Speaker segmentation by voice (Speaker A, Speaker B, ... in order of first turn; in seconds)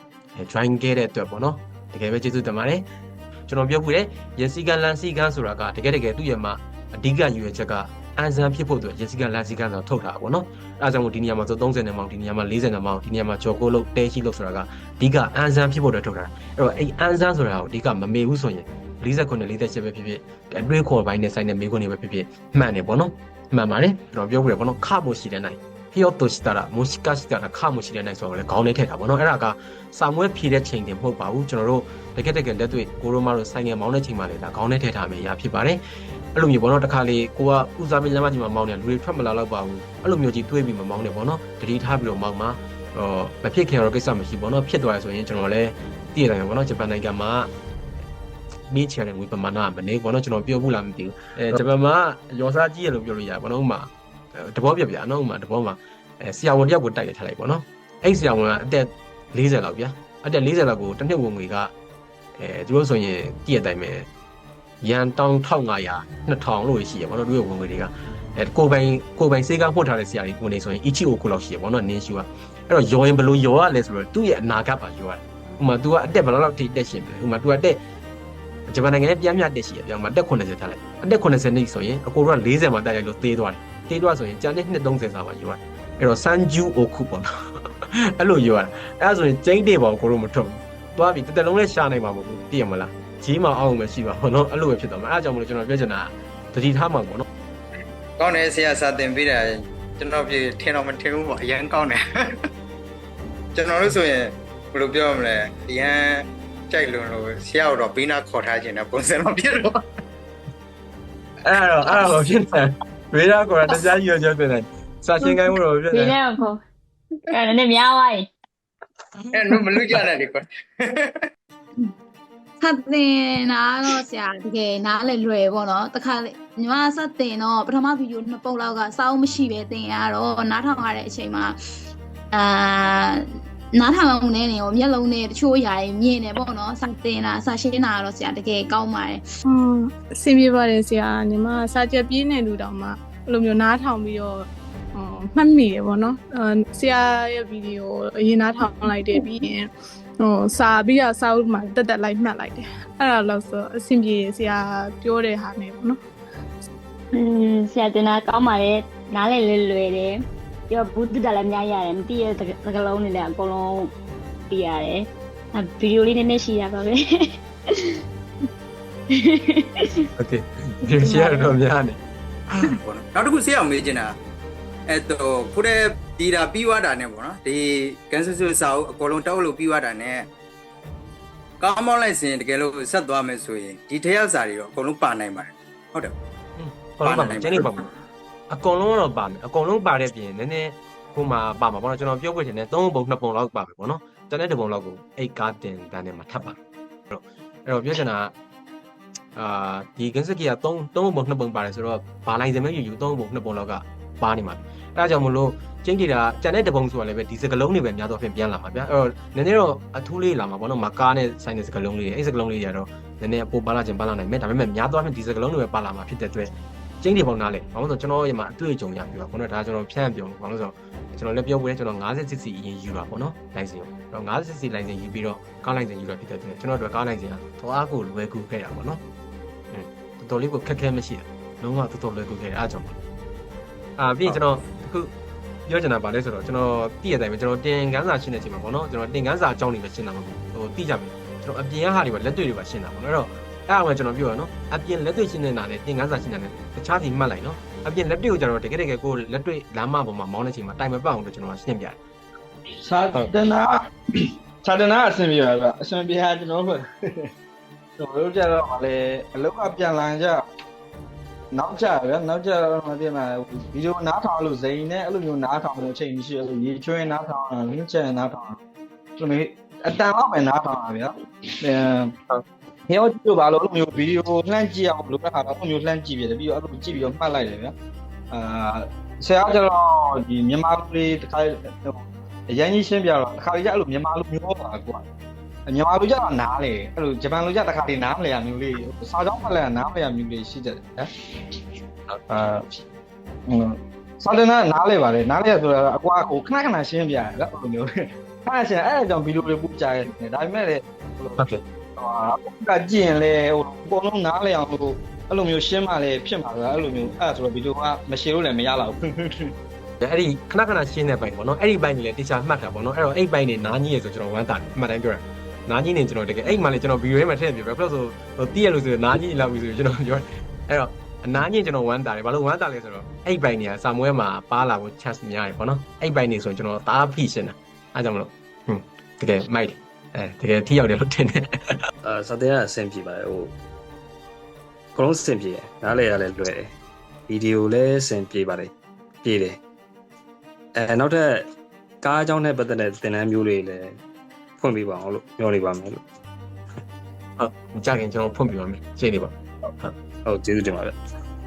Speaker A: 0.4-2.9, 3.5-35.8, 36.4-47.5, 48.7-61.7, 62.4-64.1, 64.8-77.8, 78.7-87.3, 88.2-97.3, 111.4-116.2, 119.3-120.1, 170.2-172.0, 172.5-172.8, 186.6-187.8, 188.5-196.6, 197.1-198.3, 199.3-229.0, 229.7-233.0, 234.0-235.1, 235.7-252.0, 310.0-331.8, 347.4-349.9
Speaker B: 98.2-102.4, 103.5-109.8, 119.3-121.2, 172.8-174.1, 174.9-180.3, 181.6-186.2, 187.0-187.7
Speaker C: 115.9-116.6, 117.3-118.3, 157.2-160.1, 160.7-163.8, 164.5-167.0, 169.2-170.0, 171.0-171.6
Speaker D: 122.6-131.6, 132.3-139.2
Speaker E: 139.5-149.7, 150.2-156.0
Speaker F: 252.8-257.3, 258.0-260.4, 261.5-268.6, 269.2-277.7, 278.3-285.0, 285.7-291.1, 292.3-292.6, 293.5-297.9, 298.4-309.5
Speaker G: 332.0-333.6, 334.9-336.8, 337.3-338.7, 339.2-339.6, 340.8-341.5, 342.0-344.0, 344.6-346.0, 350.2-350.9